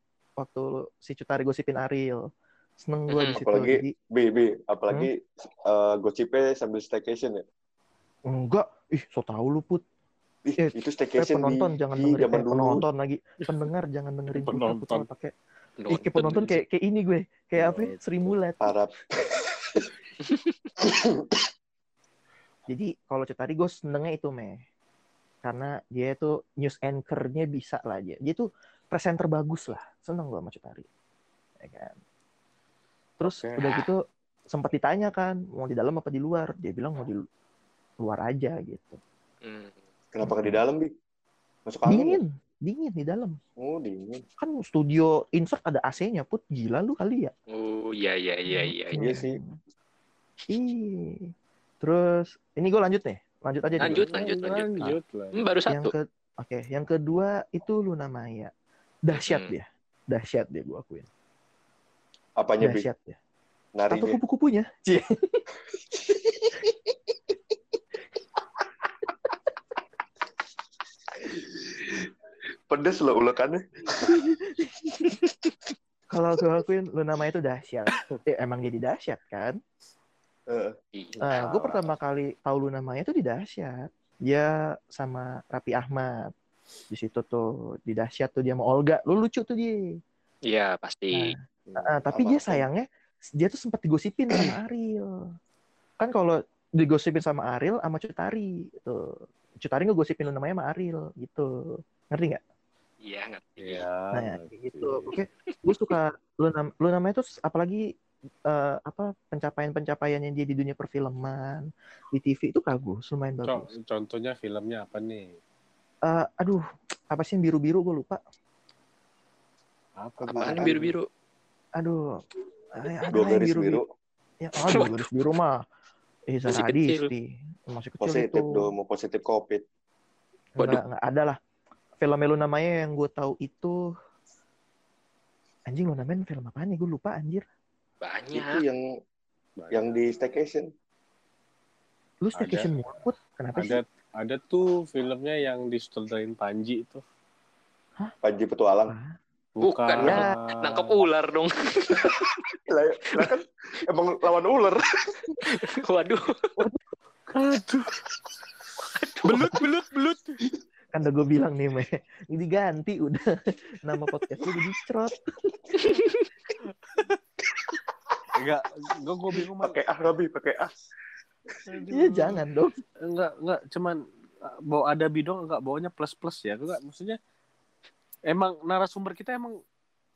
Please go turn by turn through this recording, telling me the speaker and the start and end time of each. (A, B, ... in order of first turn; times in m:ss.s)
0:00.4-0:02.2 A
0:02.8-0:03.9 A
0:03.3-0:07.4 B
0:08.3-0:09.8 A
0:10.5-0:12.8 B
0:10.6-0:15.3 A
0:14.3-0:15.1 C
0:15.8-0:16.6 D
0:15.9-0:18.7 A
0:17.6-0:18.4 C
0:18.6-0:19.8 B
0:20.3-0:20.5 D
0:20.8-0:21.4 B
0:22.7-0:24.6 A
0:25.4-0:30.8 A
0:31.6-0:31.9 A
0:33.2-0:34.0 A
0:33.2-0:33.6 B
0:34.5-0:37.2 A
0:38.0-0:39.0 A
0:39.4-0:39.7 D
0:40.1-0:40.9 B
0:40.3-0:40.6 A
0:41.6-0:42.2 B
0:41.8-0:43.4 A
0:43.6-0:44.2 B
0:44.4-0:47.3 A
0:47.5-0:49.2 D
0:48.5-0:49.6 A
0:49.0-0:49.4 B
0:50.5-0:51.3 A
0:51.8-0:54.1 A
0:53.8-0:55.5 C
0:53.8-0:55.9 D
0:55.7-0:58.5 A
0:59.0-1:01.1 A
0:59.1-0:59.5 D
1:02.4-1:02.9 B
1:02.6-1:03.2 A
1:03.8-1:04.2 B
1:03.9-1:05.4 A
1:11.2-1:12.1 B
1:12.7-1:14.1 B
1:14.0-1:14.7 A
1:16.1-1:19.6 A
1:20.5-1:20.8 B
1:20.9-1:21.5 D
1:21.2-1:26.3 A
1:21.3-1:21.8 B
1:26.9-1:29.8 A
1:30.5-1:31.3 D
1:31.1-1:35.2 A
1:31.7-1:32.6 B
1:36.0-1:41.5 A
1:42.1-1:42.4 A
1:43.0-1:43.8 D
1:43.6-1:45.1 C
1:44.1-1:47.8 A
1:45.5-1:45.9 D
1:48.5-1:53.7 A
1:53.4-1:55.3 C
1:56.0-1:58.2 A
2:00.0-2:00.9 C
2:00.2-2:00.8 B
2:00.3-2:01.1 D
2:01.8-2:02.0 A
2:02.8-2:03.8 A
2:03.1-2:03.8 B
2:04.4-2:05.5 A
2:04.6-2:05.1 D
2:06.3-2:08.7 A
2:06.5-2:07.1 D
2:08.0-2:09.6 B
2:10.6-2:11.4 A
2:12.0-2:13.8 A
2:15.7-2:17.4 A
2:18.0-2:18.6 D
2:18.3-2:18.8 B
2:19.6-2:19.9 C
2:19.7-2:20.7 B
2:22.2-2:23.8 A
2:22.3-2:22.7 C
2:23.6-2:27.0 C
2:28.2-2:28.9 B
2:28.9-2:29.2 A
2:29.6-2:31.0 C
2:29.6-2:32.4 D
2:30.0-2:30.3 A
2:32.7-2:34.8 B
2:35.5-2:36.5 D
2:36.6-2:36.8 A
2:37.3-2:38.0 C
2:39.0-2:39.6 D
2:39.2-2:40.4 C
2:40.9-2:43.2 A
2:43.8-2:45.3 A
2:45.8-2:46.2 D
2:48.4-2:49.8 C
2:49.6-2:50.7 B
2:51.7-2:52.4 C
2:51.9-2:52.7 A
2:53.0-2:57.2 C
2:58.3-2:59.6 C